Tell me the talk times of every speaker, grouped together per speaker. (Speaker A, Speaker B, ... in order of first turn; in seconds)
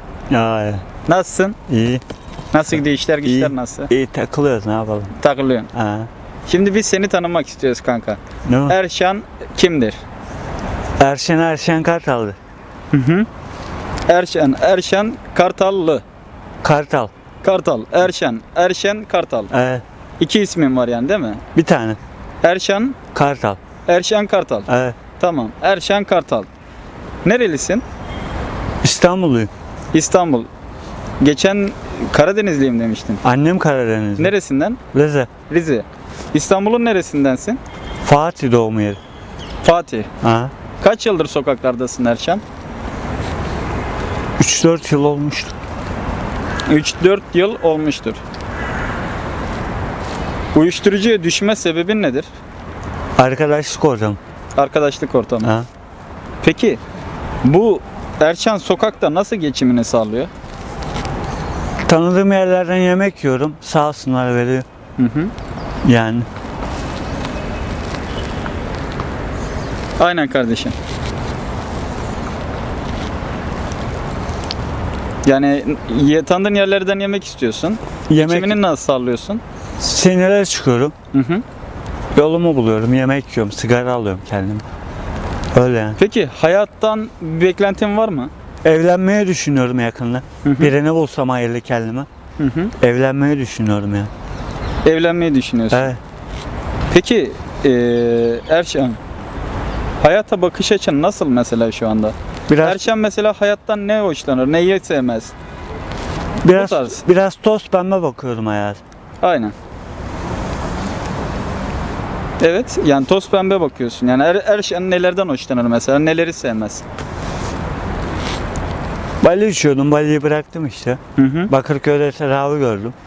Speaker A: 0.3-0.9, 1.7-2.0, 3.2-5.1, 5.7-6.1, 8.5-8.8, 11.0-12.4, 16.6-17.1, 19.5-19.8, 21.6-22.0, 23.1-23.6, 24.7-25.0, 28.8-29.5, 33.2-34.3, 34.9-35.3, 38.0-39.0, 40.2-40.5, 44.4-45.5, 53.2-54.2, 61.9-64.7, 65.8-66.3, 78.1-78.6, 79.8-80.9, 82.2-84.6, 85.5-86.0, 88.6-92.1, 92.8-94.1, 95.7-96.0, 102.5-102.8, 106.4-108.8, 119.2-123.0
Speaker B: 1.1-1.6, 2.5-3.9, 5.2-5.7, 6.5-10.0, 12.9-13.3, 14.1-16.0, 17.4-19.5, 20.2-21.4, 22.4-23.0, 23.9-26.5, 27.2-27.8, 29.9-30.5, 31.2-33.2, 34.2-34.8, 35.5-37.6, 39.6-40.1, 40.8-42.4, 46.7-48.2, 50.5-52.3, 54.6-55.5, 56.4-56.8, 57.4-60.3, 65.0-65.3, 70.0-70.8, 75.2-79.4, 81.1-81.4, 86.0-88.3, 90.4-90.7, 92.4-92.7, 94.8-95.9, 96.9-99.0, 100.0-105.3, 106.5-107.0, 109.2-109.5, 112.4-116.8, 121.2-121.5